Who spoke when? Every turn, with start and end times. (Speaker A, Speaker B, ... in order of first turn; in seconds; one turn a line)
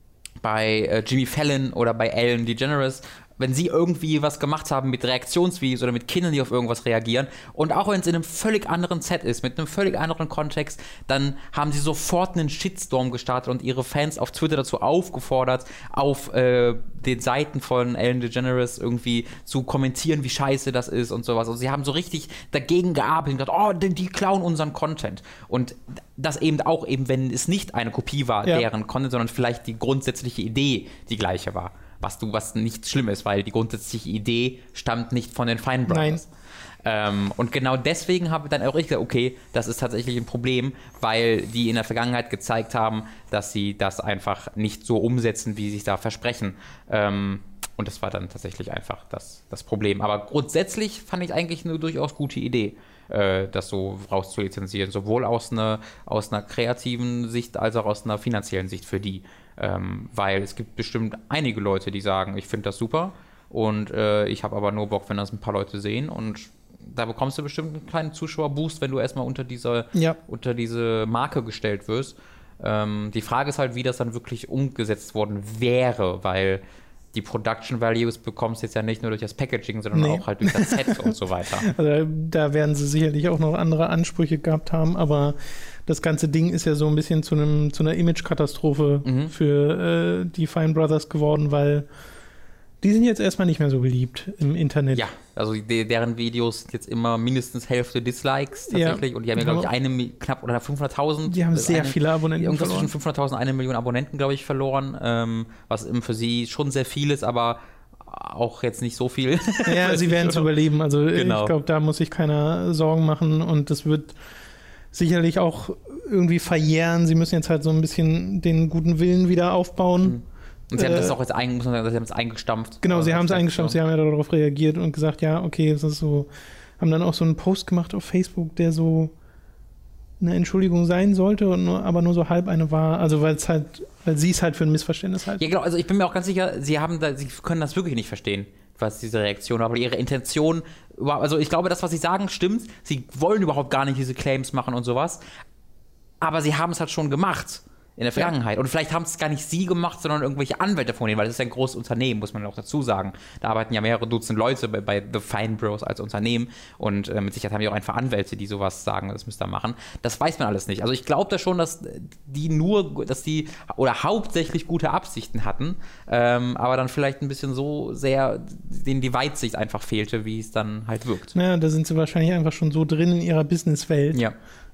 Speaker A: 0.4-36.3
Speaker B: 35.9-36.2
Speaker A: 36.8-76.6
Speaker A: 77.1-81.7
Speaker B: 79.9-91.9
Speaker A: 89.0-89.3
Speaker B: 92.8-95.0
Speaker A: 94.9-110.5
Speaker B: 98.7-99.7
Speaker B: 101.3-102.9
Speaker B: 109.7-114.2
Speaker A: 111.1-111.5
Speaker B: 114.9-120.2
Speaker A: 120.0-123.8
Speaker B: 120.7-121.2
Speaker B: 122.8-126.3
Speaker B: 126.8-129.1
Speaker B: 130.2-135.4
Speaker A: 135.4-145.2
Speaker A: 146.2-171.3
Speaker B: 171.3-174.2